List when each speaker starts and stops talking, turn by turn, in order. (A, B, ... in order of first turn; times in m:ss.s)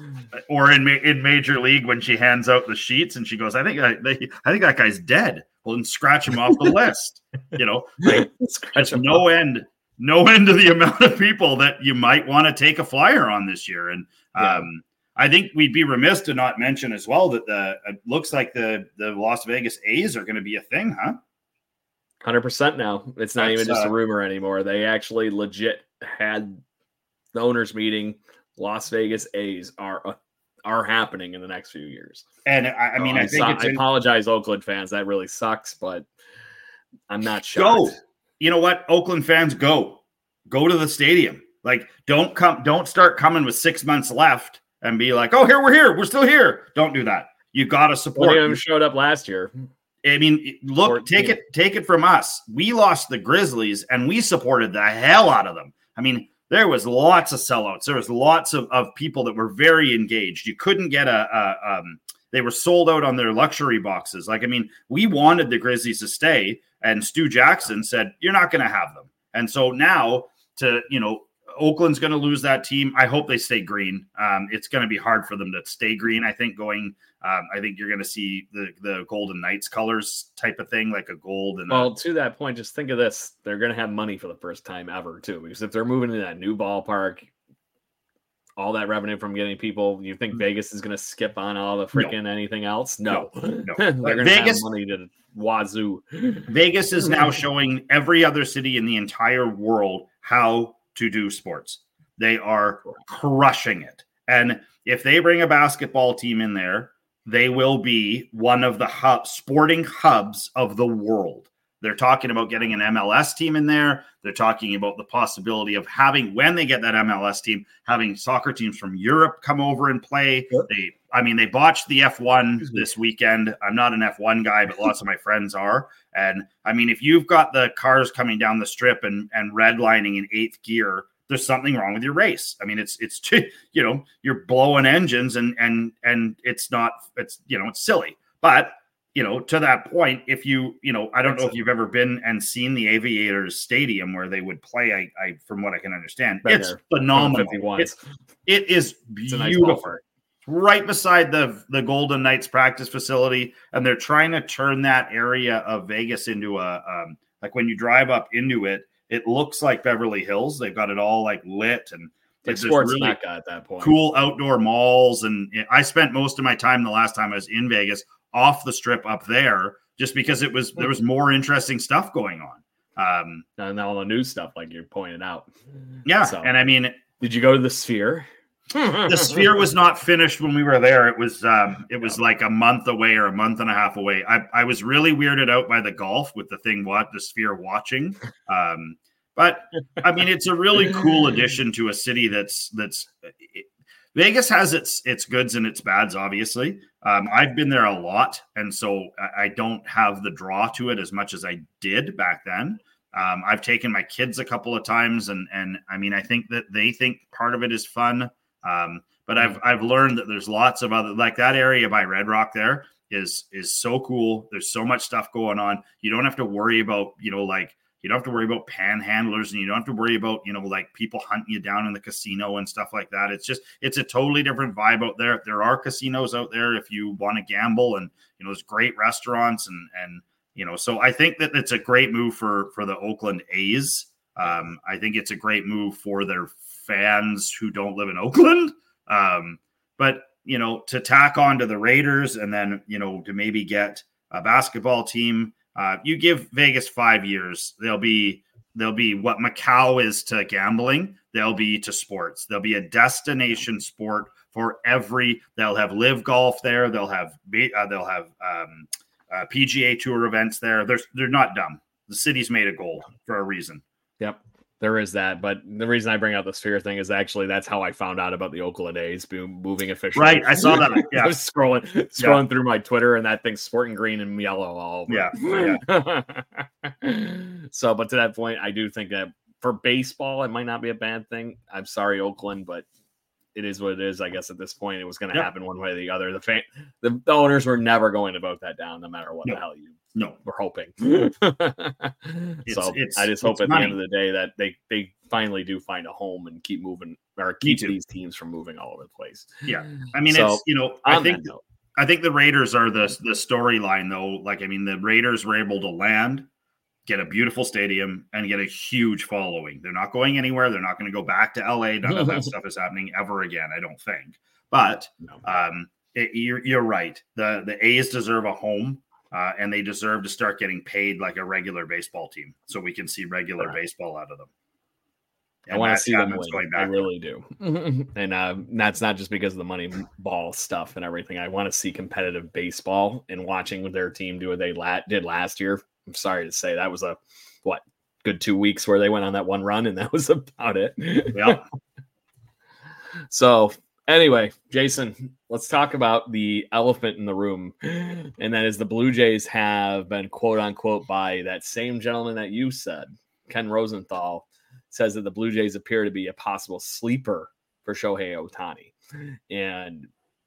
0:00.3-0:21.2 A
0:08.0-0:09.2 B
0:14.4-0:14.7 B
0:22.2-0:26.6 B
0:23.4-0:23.9 A
0:27.3-0:32.2 B
0:32.4-0:33.8 A
0:33.0-0:36.0 B
0:37.1-0:38.0 B
0:37.6-0:48.6 A
0:48.2-0:49.5 B
0:50.0-1:21.9 A
0:50.8-0:51.4 B
1:21.7-1:27.3 B
1:28.6-1:36.5 B
1:33.1-1:34.6 A
1:36.5-2:27.9 A
2:21.3-2:21.5 B
2:26.4-2:28.0 B
2:28.4-2:29.9 A
2:29.3-2:30.0 B
2:30.5-2:43.2 A
2:42.4-2:44.0 B
2:43.8-2:53.4 A
2:53.6-2:55.5 B
2:56.0-2:57.0 A
2:56.2-2:56.5 B
2:57.2-2:59.4 B
2:59.0-4:23.8 A
4:24.2-4:42.8 B
4:30.1-4:31.4 A
4:35.1-4:35.8 A
4:43.5-4:59.6 B
4:52.6-4:54.0 A
4:57.6-4:57.9 A
4:59.6-5:06.5 A
5:00.2-5:01.6 B
5:07.0-5:24.5 A
5:25.7-5:27.1 A
5:25.7-5:41.6 B
5:41.3-5:41.6 A
5:43.3-6:00.1 B